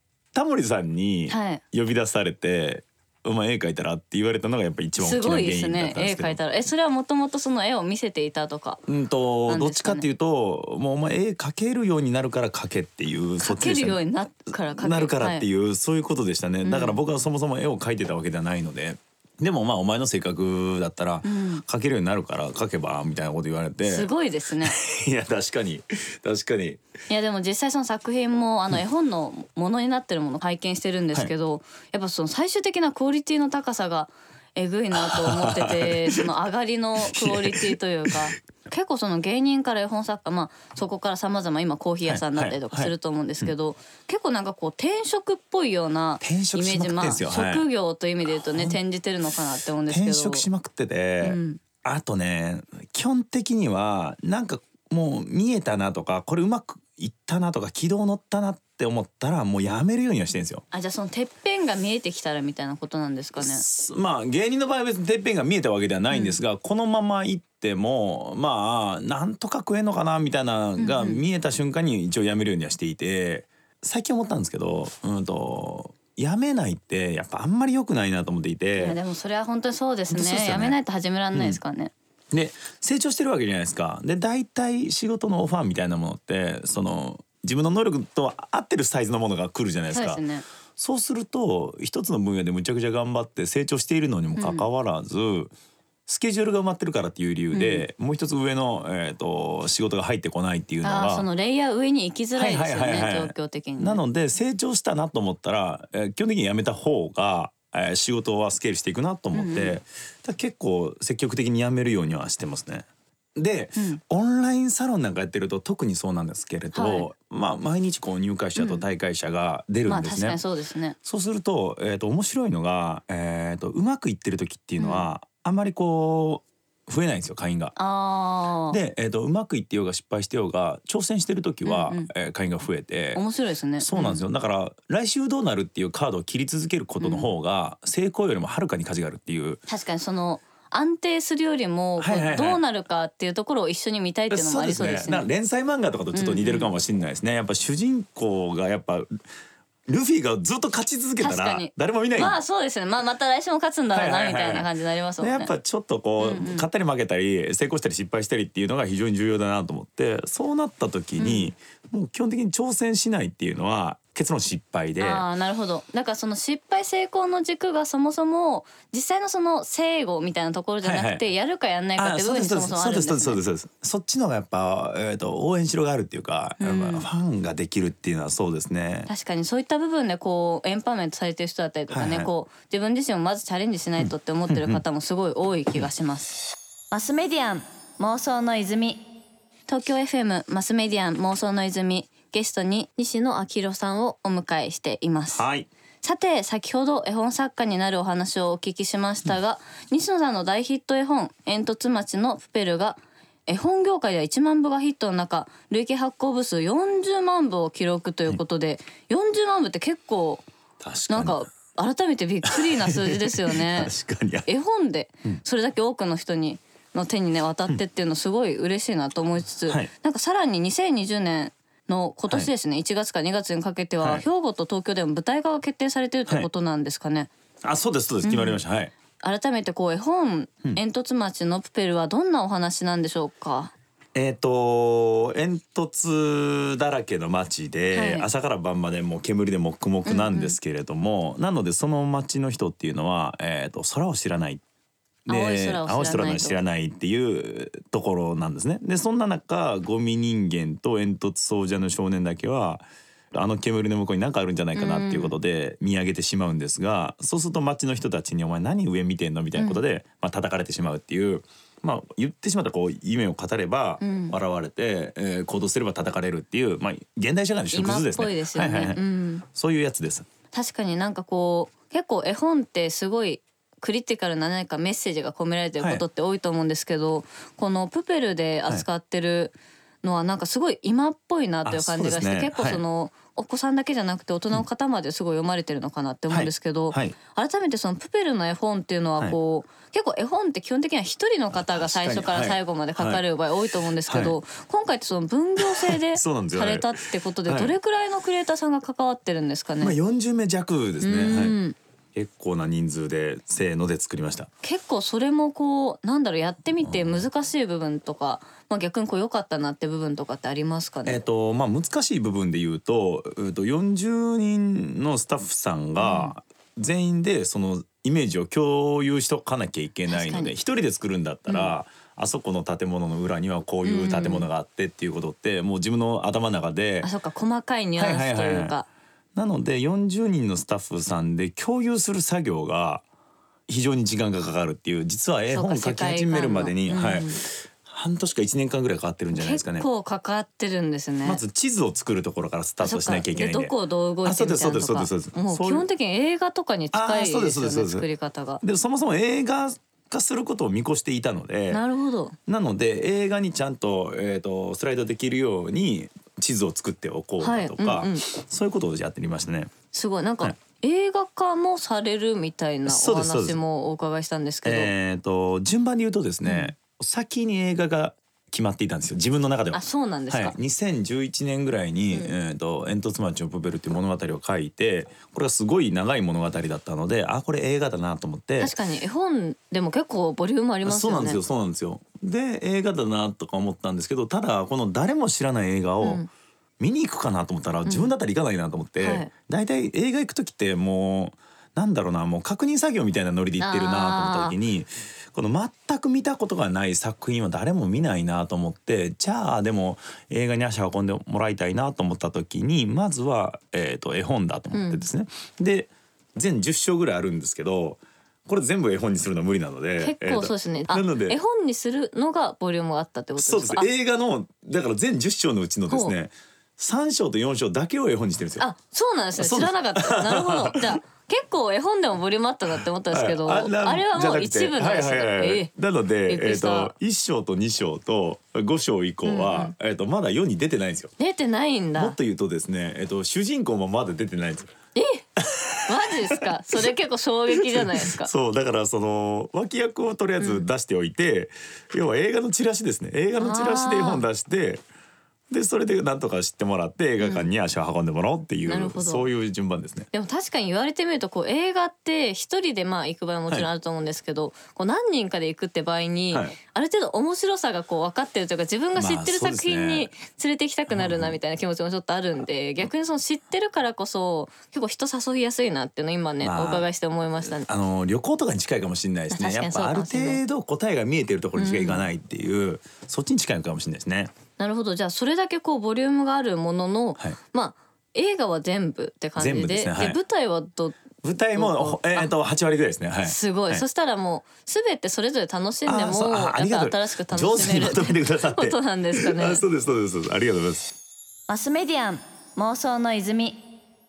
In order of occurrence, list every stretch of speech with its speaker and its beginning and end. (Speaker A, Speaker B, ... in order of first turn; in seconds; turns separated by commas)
Speaker A: 0.3-6.4, Speaker B: 1.3-1.6, Speaker B: 5.0-8.8, Speaker A: 8.9-14.0, Speaker B: 9.5-10.1, Speaker B: 13.4-15.4, Speaker A: 14.8-24.1, Speaker B: 16.6-17.0, Speaker B: 21.2-21.6, Speaker B: 23.8-24.8, Speaker A: 24.6-26.8, Speaker B: 27.1-50.5, Speaker A: 35.0-36.2, Speaker A: 37.1-38.3, Speaker A: 42.0-43.5, Speaker A: 46.2-47.7, Speaker A: 48.3-48.8, Speaker A: 49.9-60.6, Speaker B: 51.2-51.6, Speaker B: 60.7-63.6, Speaker A: 63.4-79.0, Speaker B: 66.1-66.4, Speaker B: 70.8-71.2, Speaker B: 78.8-81.9, Speaker A: 80.1-80.8, Speaker A: 81.3-81.6, Speaker A: 82.3-90.2, Speaker B: 89.9-90.4, Speaker A: 90.8-95.5, Speaker B: 94.3-94.7, Speaker A: 96.1-101.2, Speaker B: 97.5-97.9, Speaker B: 100.8-104.0, Speaker A: 102.3-120.4, Speaker B: 109.3-109.8, Speaker B: 116.7-117.1, Speaker B: 118.5-118.8, Speaker B: 119.8-121.0, Speaker A: 121.0-127.8, Speaker B: 124.8-125.1, Speaker B: 127.8-128.8, Speaker A: 128.7-133.2, Speaker B: 131.6-132.1, Speaker B: 133.1-134.2, Speaker A: 133.8-139.6, Speaker B: 137.0-137.3, Speaker B: 139.7-145.3, Speaker A: 142.0-142.6, Speaker A: 144.3-149.2, Speaker B: 146.1-146.8, Speaker A: 149.9-152.4, Speaker B: 151.2-155.5, Speaker A: 153.9-154.7, Speaker A: 155.2-165.2, Speaker B: 156.2-156.7, Speaker B: 161.2-161.5, Speaker B: 165.0-173.4, Speaker A: 170.8-171.2, Speaker A: 172.0-179.1, Speaker B: 176.6-177.1, Speaker B: 179.1-186.4, Speaker A: 181.9-182.3, Speaker A: 184.0-184.8, Speaker B: 186.9-189.0, Speaker B: 189.7-195.4, Speaker A: 195.3-195.7, Speaker B: 196.0-210.4, Speaker A: 210.8-211.4, Speaker B: 211.1-213.9, Speaker A: 212.5-214.5, Speaker B: 214.4-227.3, Speaker A: 227.6-228.9, Speaker B: 228.2-228.6, Speaker B: 229.2-233.7, Speaker A: 234.1-244.6, Speaker B: 237.9-238.3, Speaker B: 240.1-240.6, Speaker A: 245.3-270.3, Speaker B: 245.3-246.6, Speaker B: 254.7-255.3, Speaker B: 259.6-259.8, Speaker B: 264.0-264.3, Speaker B: 267.7-269.4, Speaker B: 270.5-299.9, Speaker A: 281.6-282.8, Speaker A: 286.3-287.1, Speaker A: 291.5-293.2, Speaker A: 294.1-294.4, Speaker A: 295.6-296.9, Speaker A: 297.5-297.7, Speaker A: 299.8-301.6, Speaker B: 301.0-301.8, Speaker A: 302.1-304.5, Speaker B: 304.6-311.2, Speaker A: 306.8-307.3, Speaker A: 311.0-327.1, Speaker B: 316.0-316.3, Speaker B: 320.1-320.5, Speaker B: 321.5-321.7, Speaker B: 323.8-324.5, Speaker B: 327.0-328.9, Speaker A: 328.0-328.7, Speaker A: 329.3-333.0, Speaker A: 333.7-339.9, Speaker B: 335.5-337.4, Speaker B: 339.3-341.4, Speaker A: 341.2-343.7, Speaker B: 342.8-348.6, Speaker A: 344.2-345.9, Speaker A: 346.9-348.1, Speaker A: 348.6-351.8, Speaker B: 351.7-352.4, Speaker A: 352.5-359.7, Speaker B: 357.4-358.2, Speaker B: 359.9-364.9, Speaker A: 362.9-363.6, Speaker A: 364.6-378.7, Speaker B: 366.4-366.7, Speaker B: 369.7-370.6, Speaker B: 372.1-372.4, Speaker B: 378.6-381.4, Speaker A: 380.8-386.2, Speaker B: 386.0-386.3, Speaker A: 386.8-411.4, Speaker B: 387.8-388.1, Speaker B: 389.0-389.3, Speaker B: 393.6-394.6, Speaker B: 404.7-405.1, Speaker B: 410.0-413.9, Speaker A: 413.4-418.6, Speaker B: 415.9-416.1, Speaker B: 418.6-425.7, Speaker A: 419.4-421.0, Speaker A: 423.1-431.1, Speaker B: 426.3-426.9, Speaker B: 429.2-429.7, Speaker B: 431.2-432.1, Speaker A: 431.9-434.7, Speaker B: 434.9-435.2, Speaker A: 435.4-436.9, Speaker B: 435.9-438.3, Speaker A: 437.6-444.8, Speaker B: 440.4-440.7, Speaker B: 443.4-444.2, Speaker A: 445.5-450.1, Speaker B: 447.2-447.5, Speaker B: 448.6-449.3, Speaker B: 450.1-467.7, Speaker A: 456.3-456.6, Speaker A: 458.9-460.1, Speaker A: 460.9-461.4, Speaker A: 466.4-466.9, Speaker A: 467.4-474.3, Speaker B: 469.3-470.4, Speaker B: 471.5-472.1, Speaker B: 474.6-481.0, Speaker A: 479.4-480.2, Speaker A: 481.2-483.8, Speaker B: 481.5-482.3, Speaker B: 483.2-489.6, Speaker A: 485.9-490.9, Speaker B: 491.5-493.6